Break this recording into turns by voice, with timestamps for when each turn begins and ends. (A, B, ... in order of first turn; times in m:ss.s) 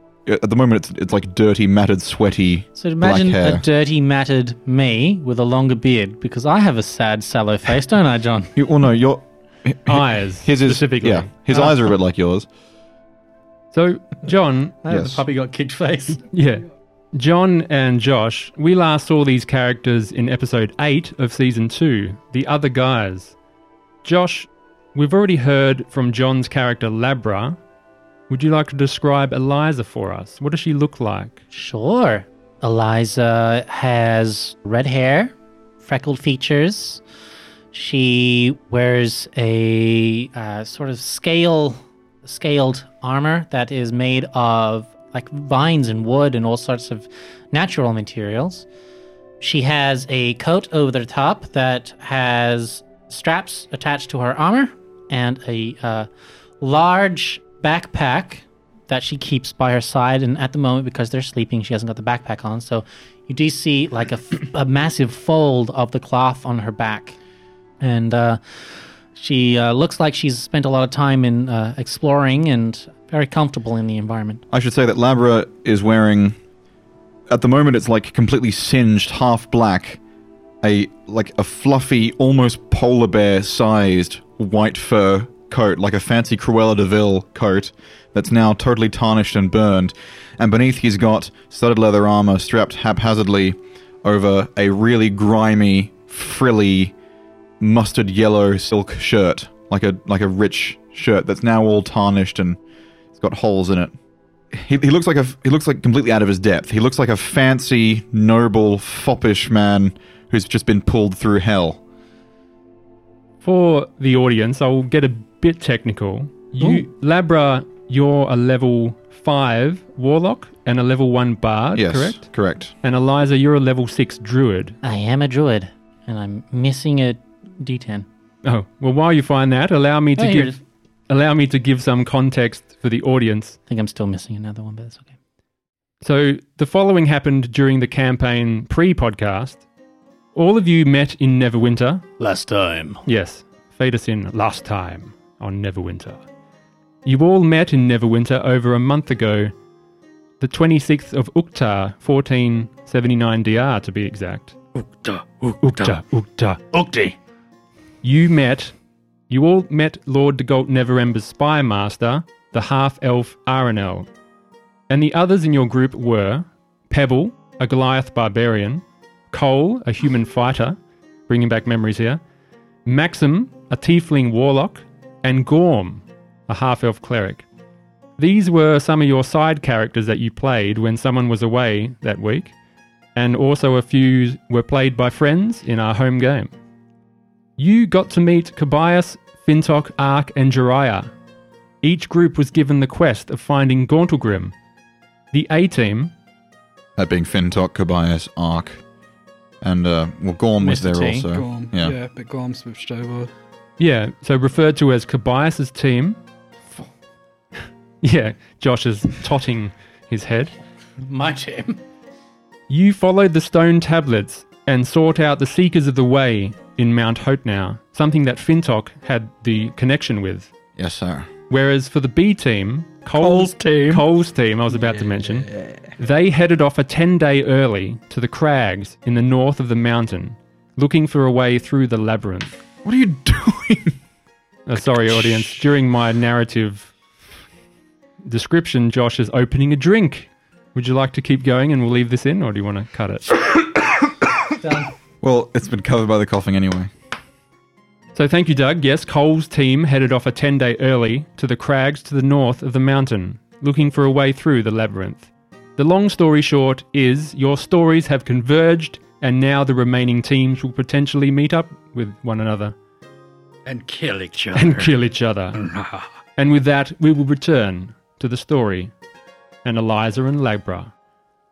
0:00.3-0:03.6 A
0:02.8-0:08.5 B
0:08.6-0:12.5 A
0:09.9-0:11.3 C
0:11.5-0:11.9 B
0:13.7-0:14.8 C
0:14.8-0:16.2 B
0:14.9-0:15.2 A
0:16.2-0:23.4 C
0:24.0-0:27.6 C
0:28.3-0:31.4 C
0:31.5-0:37.0 B
0:37.7-0:48.7 B
0:49.4-0:56.1 B
0:56.6-1:07.2 B
1:07.8-1:14.4 B
1:14.5-1:16.4 A
1:17.3-1:20.0 A
1:20.6-1:36.9 A
1:37.6-1:42.6 A
1:43.1-1:43.9 A
1:44.5-1:51.8 A
1:53.4-2:02.2 C
2:01.8-2:02.7 A
2:02.8-2:04.8 C
2:04.8-2:08.1 B
2:08.4-2:10.6 C
2:10.2-2:10.6 B
2:11.1-2:13.6 C
2:13.7-2:15.1 B
2:16.0-2:19.6 C
2:20.4-2:22.0 C
2:22.2-2:23.0 B
2:23.1-2:26.2 C
2:27.0-2:29.5 C
2:30.4-2:34.6 C
2:35.0-2:36.0 B
2:35.6-2:36.6 C
2:36.7-2:37.2 B
2:38.0-2:38.7 C
2:39.3-2:44.1 C
2:44.9-2:52.2 C
2:52.8-2:57.4 C
2:58.2-3:02.5 C
3:03.2-3:06.5 C
3:07.6-3:11.1 C
3:11.8-3:14.6 C
3:15.3-3:16.1 C
3:17.0-3:18.8 A
3:19.6-3:22.0 A
3:20.6-3:21.3 B
3:21.3-3:23.3 D
3:23.8-3:26.2 C
3:28.0-3:30.5 C
3:31.0-3:31.8 B
3:32.7-3:40.5 C
3:40.8-3:41.3 A
3:41.5-3:52.5 C
3:43.2-3:44.0 D
3:44.9-3:45.9 D
3:52.8-3:54.0 A
3:54.7-3:56.9 C
3:58.2-4:03.4 C
4:04.6-4:04.9 B
4:05.2-4:06.9 A
4:08.2-4:22.8 C
4:23.7-4:24.9 D
4:24.6-4:25.6 C
4:25.6-4:26.1 D
4:26.4-4:28.9 C
4:29.6-4:30.9 C